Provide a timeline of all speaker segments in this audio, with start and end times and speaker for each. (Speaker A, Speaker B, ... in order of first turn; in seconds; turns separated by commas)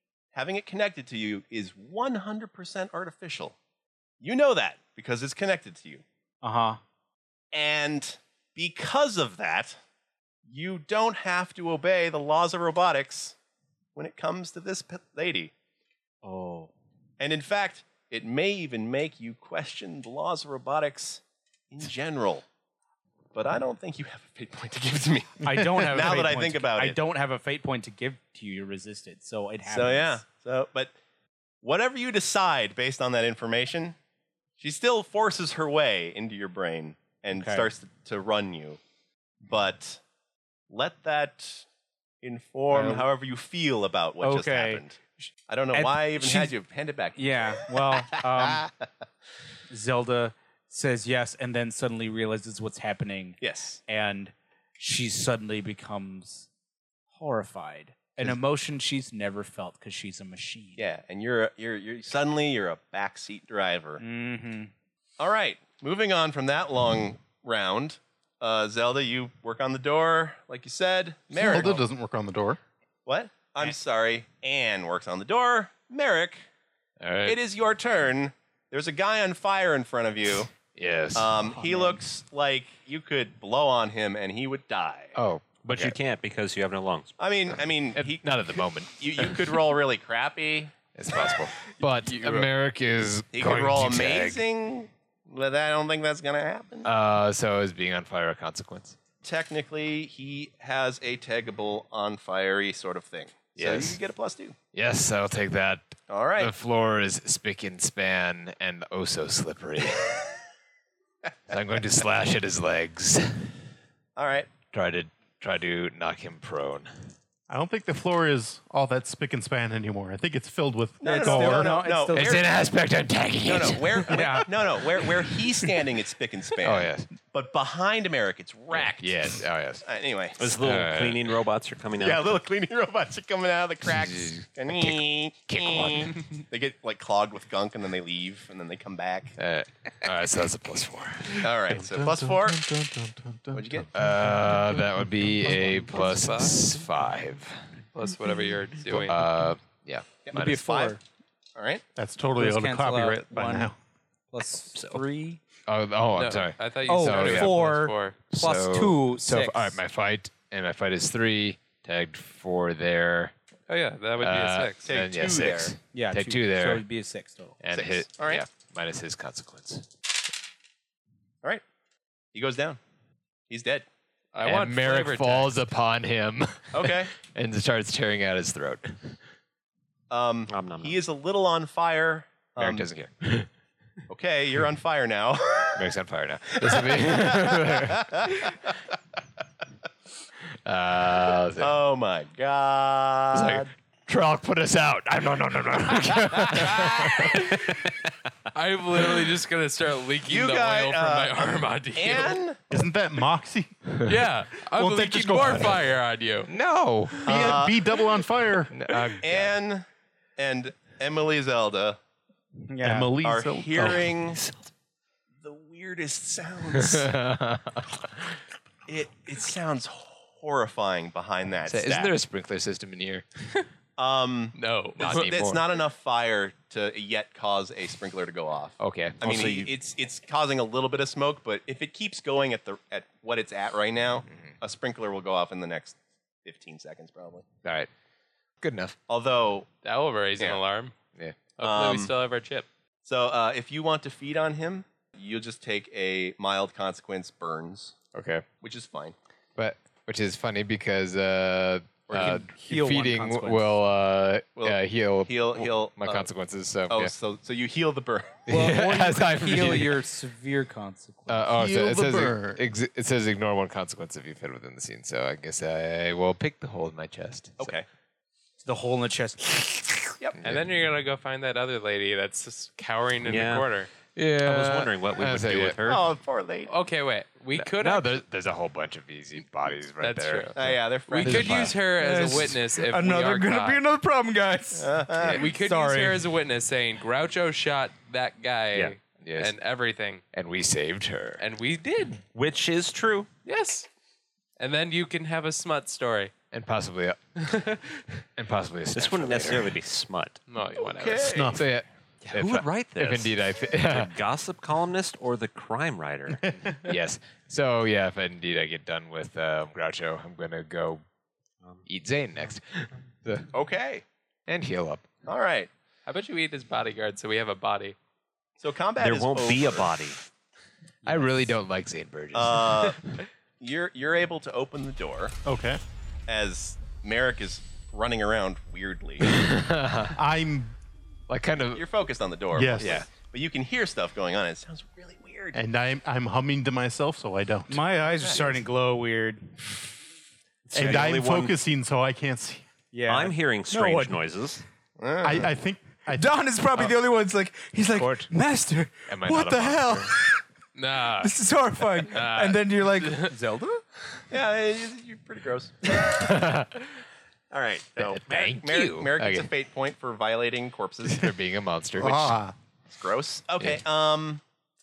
Speaker A: 0.3-3.5, Speaker A: 4.2-6.0, Speaker B: 6.4-6.8, Speaker A: 7.5-9.8, Speaker A: 10.4-13.3, Speaker A: 13.9-15.5, Speaker B: 16.2-16.7, Speaker A: 17.2-22.4, Speaker A: 23.3-27.0, Speaker B: 25.4-30.2, Speaker A: 29.7-30.9, Speaker A: 31.6-34.0, Speaker A: 34.6-38.8, Speaker B: 37.3-37.7, Speaker A: 39.5-40.0, Speaker A: 40.7-41.6, Speaker A: 42.2-48.8, Speaker B: 42.7-43.1, Speaker B: 44.2-46.5, Speaker B: 47.1-48.7, Speaker B: 49.7-56.5, Speaker A: 53.4-53.8, Speaker B: 57.1-60.8, Speaker A: 60.8-64.0, Speaker B: 64.0-64.7, Speaker A: 65.2-71.8, Speaker C: 71.3-72.6, Speaker A: 73.0-76.4, Speaker D: 77.0-77.4, Speaker A: 77.2-80.5, Speaker D: 80.7-81.3, Speaker A: 81.1-85.2, Speaker B: 81.4-82.0, Speaker D: 85.1-86.0, Speaker E: 85.6-87.1, Speaker A: 87.2-90.7, Speaker D: 87.9-89.6, Speaker D: 90.9-94.4, Speaker F: 92.0-92.5, Speaker A: 93.3-96.9, Speaker D: 96.8-99.0, Speaker A: 99.2-104.5, Speaker D: 103.5-104.0, Speaker D: 104.7-110.2, Speaker A: 106.1-106.5, Speaker D: 111.5-113.5, Speaker A: 114.2-114.5, Speaker D: 114.7-116.9, Speaker C: 117.5-121.8, Speaker A: 121.0-122.7, Speaker B: 121.0-122.4, Speaker D: 122.1-124.5, Speaker A: 123.4-130.5, Speaker B: 124.1-124.5, Speaker D: 126.6-127.1, Speaker D: 128.7-129.8, Speaker E: 130.4-132.4, Speaker D: 130.5-131.4, Speaker A: 132.0-139.4, Speaker D: 133.8-136.2, Speaker D: 139.4-141.5, Speaker A: 141.4-142.6, Speaker C: 141.7-145.2, Speaker A: 143.5-143.9, Speaker D: 143.9-147.7, Speaker F: 145.9-146.8, Speaker F: 147.9-149.2, Speaker D: 148.9-150.6, Speaker A: 150.2-151.0, Speaker B: 150.3-151.0, Speaker A: 151.5-151.8, Speaker C: 151.9-153.8, Speaker B: 152.3-153.7, Speaker B: 154.3-155.4, Speaker E: 154.7-155.0, Speaker D: 155.7-157.6, Speaker F: 156.2-158.2, Speaker B: 156.9-159.8, Speaker D: 158.3-163.3, Speaker F: 163.7-164.9, Speaker D: 164.2-166.8, Speaker A: 164.8-165.8, Speaker B: 165.9-167.6, Speaker D: 167.6-169.8, Speaker A: 167.7-168.4, Speaker A: 172.3-172.8, Speaker A: 173.5-173.9, Speaker F: 174.3-175.5, Speaker D: 174.4-179.2, Speaker A: 176.7-177.1, Speaker A: 180.1-182.9, Speaker E: 180.5-181.0, Speaker D: 182.6-183.5, Speaker A: 184.1-185.9, Speaker D: 185.7-188.5, Speaker A: 186.6-188.7, Speaker D: 190.6-191.8, Speaker A: 191.6-193.7, Speaker D: 193.3-197.9, Speaker F: 197.2-197.8, Speaker F: 198.5-202.4, Speaker A: 200.2-202.6, Speaker C: 202.7-204.1, Speaker F: 204.0-206.5, Speaker C: 204.7-205.8, Speaker D: 206.5-207.6, Speaker A: 207.2-207.9, Speaker C: 207.2-208.8, Speaker D: 208.7-209.5, Speaker A: 209.2-209.8, Speaker A: 210.4-212.0, Speaker B: 212.7-213.1, Speaker C: 212.8-214.1, Speaker A: 213.2-214.4, Speaker A: 215.4-217.1, Speaker D: 216.7-218.0, Speaker A: 218.9-222.1, Speaker D: 221.6-223.2, Speaker A: 224.0-237.4, Speaker F: 224.5-225.3, Speaker D: 225.0-225.6, Speaker D: 228.8-229.7, Speaker E: 229.3-229.6, Speaker D: 237.6-237.9, Speaker D: 238.6-238.9, Speaker A: 239.1-239.7, Speaker F: 239.8-240.9, Speaker F: 241.6-242.7, Speaker A: 241.6-242.1, Speaker A: 243.0-248.0, Speaker D: 248.1-248.4, Speaker A: 248.6-249.2, Speaker D: 249.6-257.1, Speaker A: 252.1-252.4, Speaker B: 252.1-253.7, Speaker A: 254.6-256.3, Speaker A: 256.9-258.5, Speaker D: 258.5-260.0, Speaker B: 258.5-261.5, Speaker D: 261.3-267.8, Speaker C: 261.6-262.6, Speaker A: 267.6-267.9, Speaker B: 268.6-269.8, Speaker D: 270.4-270.7, Speaker F: 270.4-273.9, Speaker E: 273.2-273.7, Speaker D: 274.1-275.8, Speaker E: 274.4-276.0, Speaker A: 275.8-276.7, Speaker F: 276.7-278.2, Speaker D: 277.5-281.8, Speaker F: 280.0-280.6, Speaker A: 280.5-281.8, Speaker F: 281.1-283.8, Speaker B: 281.9-286.2, Speaker A: 284.8-285.4, Speaker F: 285.3-290.2, Speaker D: 289.2-289.5, Speaker D: 290.3-291.4, Speaker F: 291.4-292.2, Speaker E: 292.3-293.3, Speaker F: 293.4-293.9, Speaker F: 294.6-296.3, Speaker D: 296.5-297.5, Speaker F: 297.4-298.0, Speaker D: 298.4-299.8, Speaker E: 298.9-300.4, Speaker F: 300.5-301.5, Speaker A: 300.8-301.6, Speaker C: 301.2-301.6, Speaker D: 301.5-304.1, Speaker E: 302.2-306.6, Speaker D: 306.7-311.0, Speaker D: 311.8-313.5, Speaker A: 313.5-314.0, Speaker D: 314.5-315.1, Speaker A: 315.2-315.7, Speaker F: 316.1-317.9, Speaker A: 318.6-320.0, Speaker E: 319.0-320.2, Speaker D: 321.0-323.0, Speaker A: 322.3-323.0, Speaker A: 323.6-325.4, Speaker C: 325.4-325.8, Speaker A: 326.3-329.4, Speaker D: 329.2-330.2, Speaker C: 330.1-330.7, Speaker D: 331.3-331.8, Speaker A: 331.7-335.6, Speaker C: 332.5-333.0, Speaker D: 332.8-333.1, Speaker C: 335.5-337.8, Speaker B: 337.7-339.6, Speaker A: 338.2-338.6, Speaker E: 340.6-341.5, Speaker C: 340.7-342.6, Speaker B: 342.9-344.2, Speaker E: 343.1-344.6, Speaker A: 345.0-345.5, Speaker C: 345.2-346.3, Speaker B: 346.1-350.4, Speaker D: 347.9-348.3, Speaker D: 349.1-350.1, Speaker F: 350.7-351.3, Speaker B: 351.2-353.8, Speaker F: 352.0-353.3, Speaker A: 354.3-356.4, Speaker D: 356.0-356.7, Speaker A: 357.5-361.3, Speaker D: 358.0-359.5, Speaker D: 361.0-362.4, Speaker C: 362.0-362.5, Speaker A: 362.9-364.4